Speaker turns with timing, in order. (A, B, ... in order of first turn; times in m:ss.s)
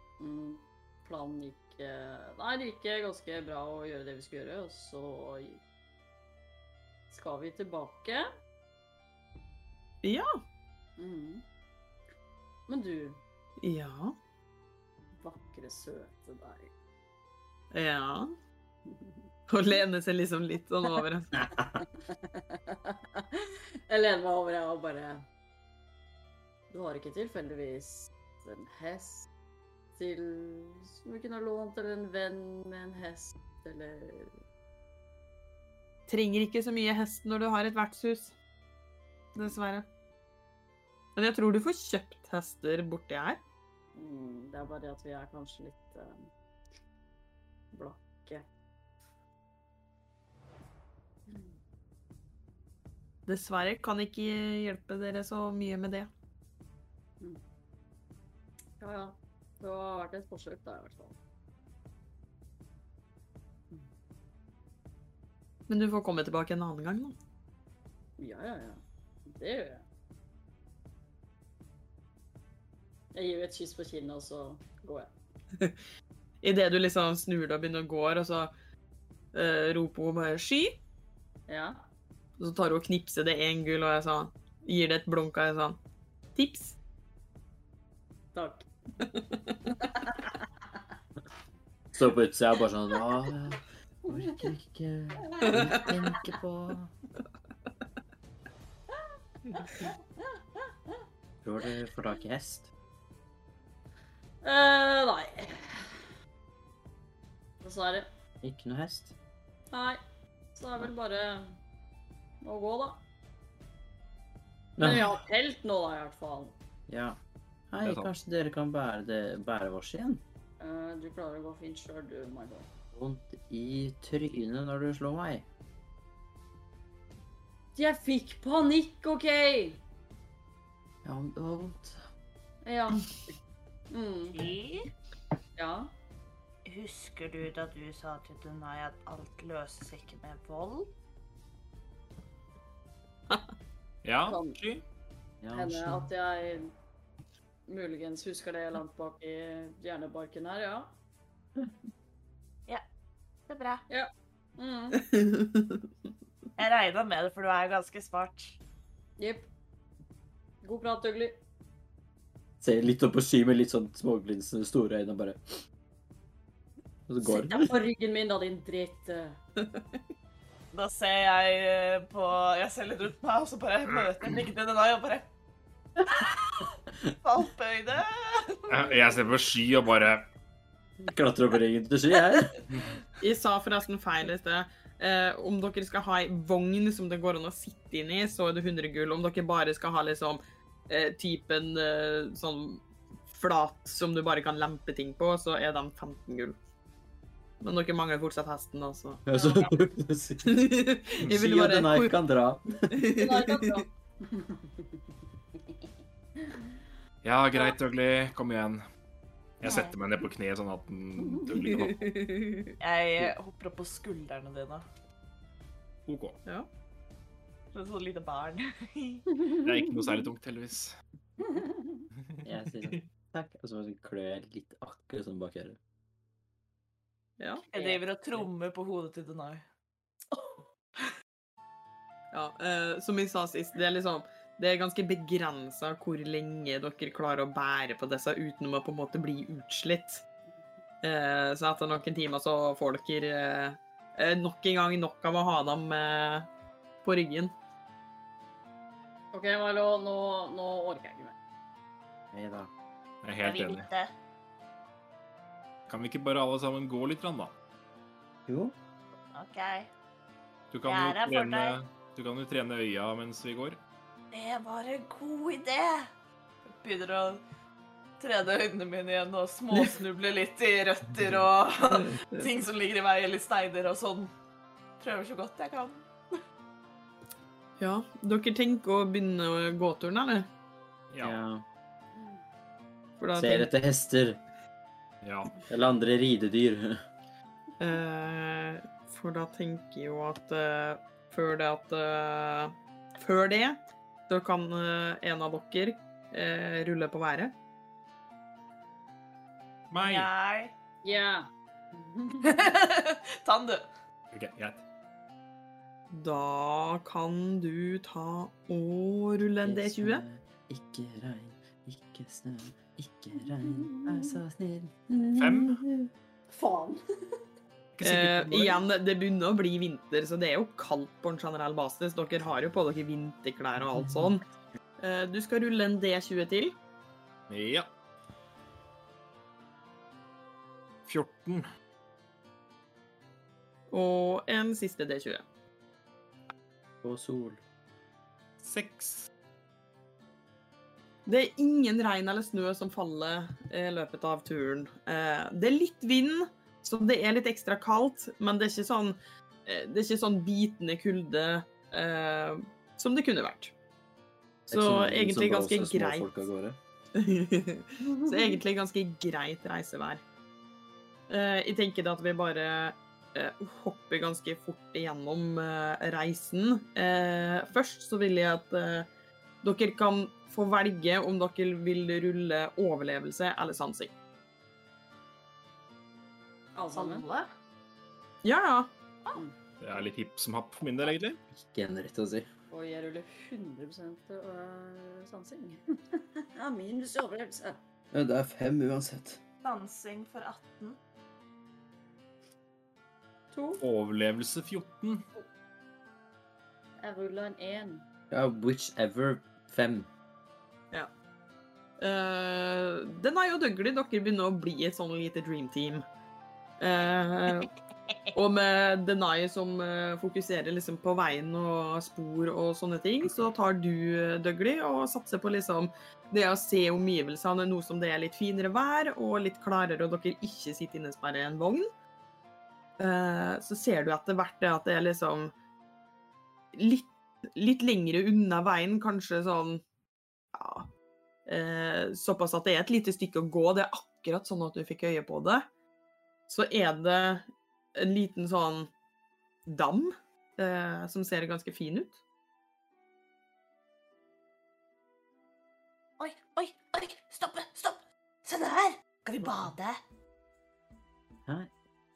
0:00.2-0:05.6 A
0:07.1-0:08.3 A
0:10.0-0:10.3 B
0:11.0-0:11.4 A
0:12.7-0:13.2 A
0:13.6-0:14.1 B
0:15.2-0:16.7 A
0:17.7-0:18.3 B
0:18.9-0:19.2 A
0:19.5-0:21.3 B
0:21.4-0:21.8 C
0:21.8-0:25.2 A
0:26.7-0:29.3 A
0:29.9-0:34.4 A
0:36.1-0:38.3 B
0:39.3-0:39.9 B
0:41.2-0:43.4 B
0:43.9-0:46.3 A
0:47.7-0:48.4 A
0:51.3-0:51.6 A
0:53.3-0:56.1 B
0:58.8-1:01.2 A
1:05.7-1:07.2 B
1:08.2-1:09.8 A
1:13.1-1:15.1 A
1:16.4-1:18.5 B
1:19.3-1:20.8 B
1:21.5-1:21.8 A
1:22.4-1:25.8 B
1:26.4-1:26.8 B
1:28.3-1:28.6 A
1:29.0-1:29.6 B
1:29.8-1:30.3 A
1:31.9-1:36.9 C
1:34.1-1:34.5 A
1:35.3-1:36.2 A
1:41.4-1:42.7 C
1:44.4-1:46.0 A
1:47.6-1:48.1 A
1:48.4-1:49.1 C
1:49.7-1:50.0 A
1:50.6-1:51.6 A
1:52.4-1:53.0 A
1:54.8-1:55.2 C
1:54.8-1:56.6 A
1:56.9-1:57.2 C
1:57.7-2:00.2 C
1:57.8-1:58.1 D
2:00.6-2:02.7 A
2:02.9-2:05.4 C
2:07.8-2:09.8 A
2:11.0-2:12.0 C
2:12.6-2:13.2 A
2:13.9-2:14.5 A
2:14.4-2:14.8 E
2:15.6-2:15.9 A
2:16.7-2:20.9 E
2:24.0-2:24.8 D
2:24.2-2:24.6 A
2:25.4-2:26.1 C
2:25.5-2:26.7 A
2:27.7-2:30.9 A
2:33.5-2:33.8 E
2:33.9-2:35.1 A
2:35.1-2:35.8 B
2:36.6-2:38.6 F
2:39.2-2:39.5 A
2:40.6-2:41.4 A
2:42.6-2:45.4 C
2:47.1-2:47.8 C
2:47.2-2:49.4 A
2:49.6-2:50.0 B
2:50.7-2:55.3 F
2:57.2-2:58.9 F
2:58.7-3:00.3 D
3:01.0-3:02.6 C
3:03.2-3:16.6 B
3:17.6-3:19.2 B
3:19.2-3:22.9 C
3:20.4-3:22.1 B
3:22.9-3:23.8 B
3:23.1-3:24.8 A
3:27.2-3:28.8 D
3:29.6-3:32.2 D
3:31.3-3:31.6 A
3:32.0-3:32.7 B
3:32.8-3:34.8 F
3:36.1-3:36.4 D
3:37.7-3:39.3 F
3:39.5-3:40.9 D
3:41.4-3:42.1 A
3:42.3-3:43.0 D
3:42.4-3:45.8 C
3:47.4-3:47.6 B
3:47.7-3:49.6 F
3:52.3-4:00.2 B
4:01.0-4:06.5 B
4:07.0-4:07.5 B
4:09.3-4:11.3 A
4:12.3-4:12.7 C
4:13.2-4:13.9 D
4:13.4-4:14.1 E
4:15.9-4:17.5 D
4:18.5-4:18.7 C
4:19.4-4:19.9 E
4:20.7-4:23.8 D
4:20.8-4:21.7 E
4:24.3-4:25.4 F
4:24.6-4:26.0 E
4:26.8-4:27.4 F
4:28.2-4:34.3 F
4:35.0-4:36.1 F
4:37.8-4:40.5 B
4:41.1-4:41.4 D
4:41.2-4:41.6 C
4:43.2-4:43.7 B
4:43.4-4:44.4 C
4:45.2-4:45.5 D
4:45.7-4:47.0 C
4:47.8-4:57.5 B
4:59.9-5:00.3 D
5:00.0-5:00.7 F
5:01.0-5:02.6 A
5:02.4-5:03.9 F
5:04.3-5:04.8 D
5:06.1-5:10.2 B
5:09.6-5:16.1 C
5:13.6-5:14.4 A
5:15.4-5:15.8 D
5:16.5-5:17.4 A
5:18.0-5:18.8 D
5:18.0-5:24.4 B
5:24.0-5:24.3 C
5:25.0-5:26.7 B
5:27.5-5:27.9 D
5:31.0-5:31.6 D
5:33.9-5:35.4 B
5:37.0-5:37.6 C
5:38.6-5:39.3 D
5:41.2-5:53.7 B
5:54.7-5:56.8 C
5:54.7-5:56.3 B
5:57.1-6:00.2 B
5:58.0-5:58.6 A
6:01.3-6:09.1 B
6:09.6-6:14.1 B
6:16.7-6:17.2 A
6:16.9-6:17.5 F
6:18.4-6:18.9 B
6:19.8-6:21.4 D
6:21.5-6:22.5 C
6:22.7-6:27.8 A
6:28.1-6:29.4 C
6:29.6-6:31.0 F
6:33.5-6:33.8 A
6:33.8-6:35.2 D
6:37.0-6:38.0 A
6:38.3-6:40.1 C
6:42.0-6:46.0 B
6:46.8-6:47.7 B
6:48.3-7:01.9 B
7:03.0-7:05.5 B
7:06.7-7:09.8 B
7:10.5-7:10.9 B
7:11.4-7:15.6 B
7:16.5-7:18.9 B
7:19.6-7:22.2 B
7:26.2-7:30.0 E
7:29.3-7:29.6 F